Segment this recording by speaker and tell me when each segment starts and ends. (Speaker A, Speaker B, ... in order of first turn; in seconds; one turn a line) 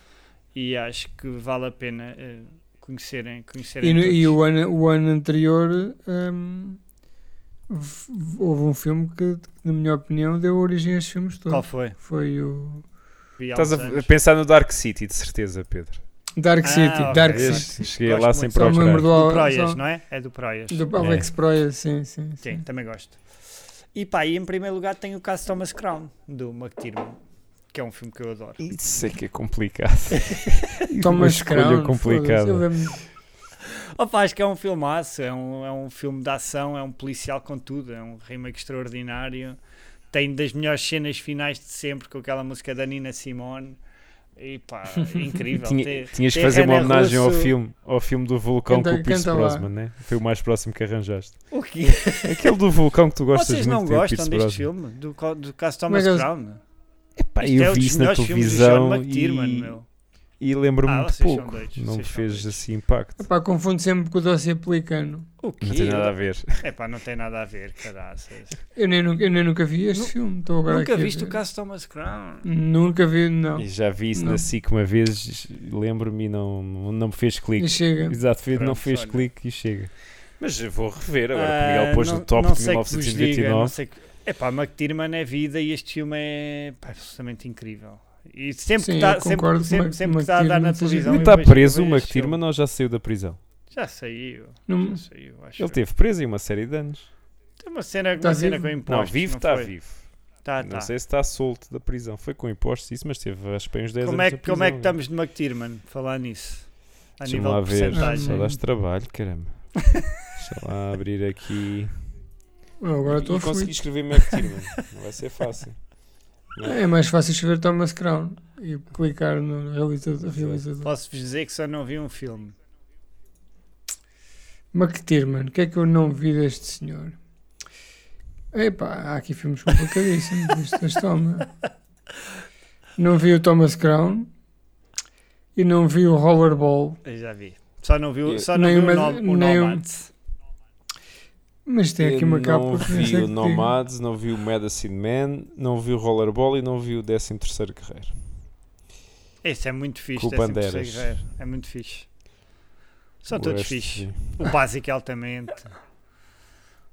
Speaker A: 0.6-4.4
Speaker B: 3.8-6.8
Speaker B: 7.7-12.8
Speaker A: 11.5-12.0
Speaker A: 13.4-14.1
Speaker C: 13.5-16.0
Speaker B: 16.4-17.8
Speaker A: 16.6-20.9
Speaker C: 17.1-19.1
Speaker B: 18.6-19.8
Speaker B: 20.7-22.6
Speaker C: 21.0-21.3
Speaker A: 22.4-23.2
Speaker A: 23.9-27.2
Speaker A: 27.7-28.6
Speaker C: 28.6-32.9
Speaker A: 30.2-30.6
Speaker B: 31.0-33.0
Speaker A: 33.6-39.6
Speaker A: 40.1-43.8
Speaker A: 44.4-47.5
Speaker C: 45.6-51.6
Speaker B: 48.7-49.7
Speaker A: 51.5-52.6
Speaker C: 52.2-54.7
Speaker A: 53.3-56.6
Speaker B: 55.9-56.3
Speaker C: 57.2-59.8
Speaker A: 57.4-59.9
Speaker C: 60.4-63.2
Speaker A: 60.9-62.6
Speaker B: 63.2-65.3
Speaker A: 65.4-68.6
Speaker C: 65.6-66.6
Speaker B: 68.8-71.4
Speaker A: 70.7-72.5
Speaker B: 72.4-74.4
Speaker C: 73.6-83.8
Speaker B: 77.6-78.2
Speaker A: 78.5-79.3
Speaker A: 81.3-92.4
Speaker B: 88.8-91.3
Speaker C: 91.1-93.4
Speaker A: 93.7-95.8
Speaker B: 94.7-95.0
Speaker C: 95.6-97.1
Speaker A: 97.6-99.8
Speaker B: 98.2-98.8
Speaker C: 98.9-100.1
Speaker A: 100.4-100.9
Speaker C: 100.6-105.0
Speaker A: 104.0-108.5
Speaker C: 107.2-109.8
Speaker B: 107.9-108.6
Speaker C: 110.4-112.0
Speaker B: 112.8-113.8
Speaker C: 113.1-115.9
Speaker C: 116.5-116.8
Speaker B: 116.6-120.9
Speaker C: 120.2-120.6
Speaker A: 120.8-122.5
Speaker B: 124.7-127.2
Speaker B: 128.5-131.5
Speaker B: 133.0-134.3
Speaker B: 135.6-137.0
Speaker A: 137.1-140.1
Speaker B: 138.5-139.8
Speaker B: 141.7-143.7
Speaker C: 142.0-148.2
Speaker A: 149.4-152.1
Speaker C: 150.2-151.1
Speaker A: 153.2-155.8
Speaker C: 153.3-154.5